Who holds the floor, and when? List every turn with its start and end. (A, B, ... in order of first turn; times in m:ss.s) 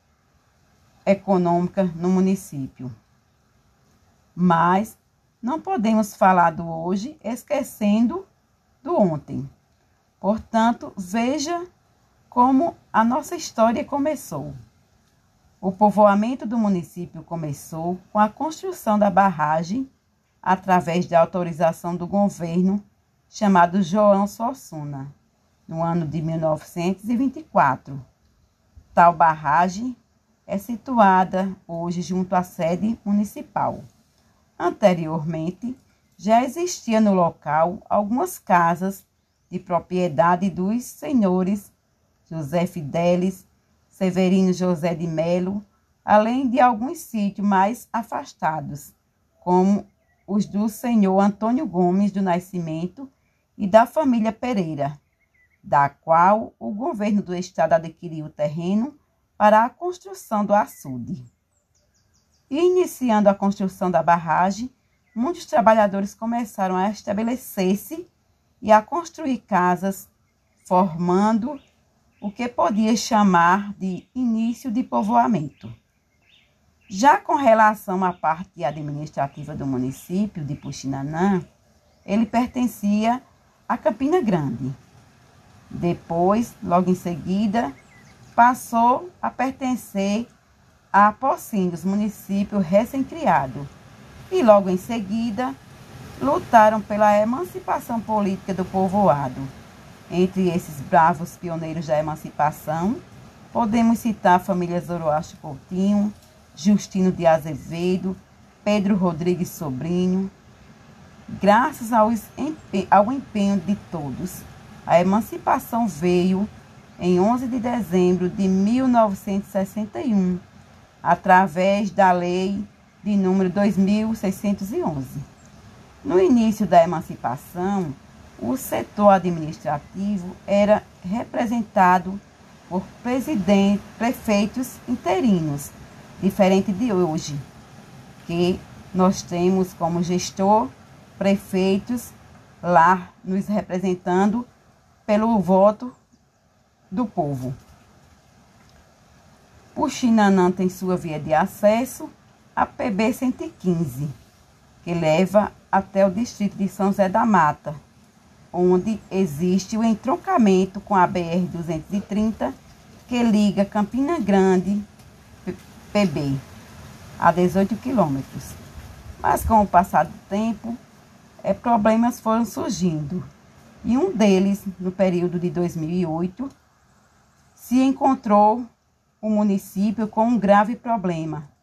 0:01.0-0:02.9 A
0:04.4-0:08.3 A
0:08.8-0:09.5 A
0:10.2-0:11.6 A
0:12.3-0:14.6 A
0:15.6-0:19.9 A
0:20.4-0:25.1 A
0:25.7-0:28.0 A
0:28.9-0:33.8 A
0:34.6-0:41.7 A
0:42.3-0:55.0 A
0:55.6-1:01.3 A
1:02.5-1:08.1 A
1:08.6-1:10.1 A
1:10.6-1:11.6 A
1:12.2-1:15.7 A
1:16.9-1:21.4 A
1:22.0-1:24.8 A
1:25.7-1:27.7 A
1:28.3-1:30.3 A
1:30.9-1:33.7 A
1:34.3-1:35.6 A
1:36.2-1:39.5 A
1:40.1-1:50.3 A
1:51.3-2:00.4 A
2:01.0-2:05.2 A
2:06.0-2:17.4 A
2:18.2-2:24.5 A
2:25.0-2:25.9 A
2:26.9-2:27.6 A
2:29.7-2:34.1 A
2:34.8-2:37.8 A
2:38.5-2:42.5 A
2:43.0-2:44.9 A
2:45.4-2:46.4 A
2:47.2-2:48.6 A
2:49.2-2:50.8 A
2:51.4-2:53.3 A
2:53.8-2:56.5 A
2:57.6-2:58.7 A
2:59.2-3:01.5 A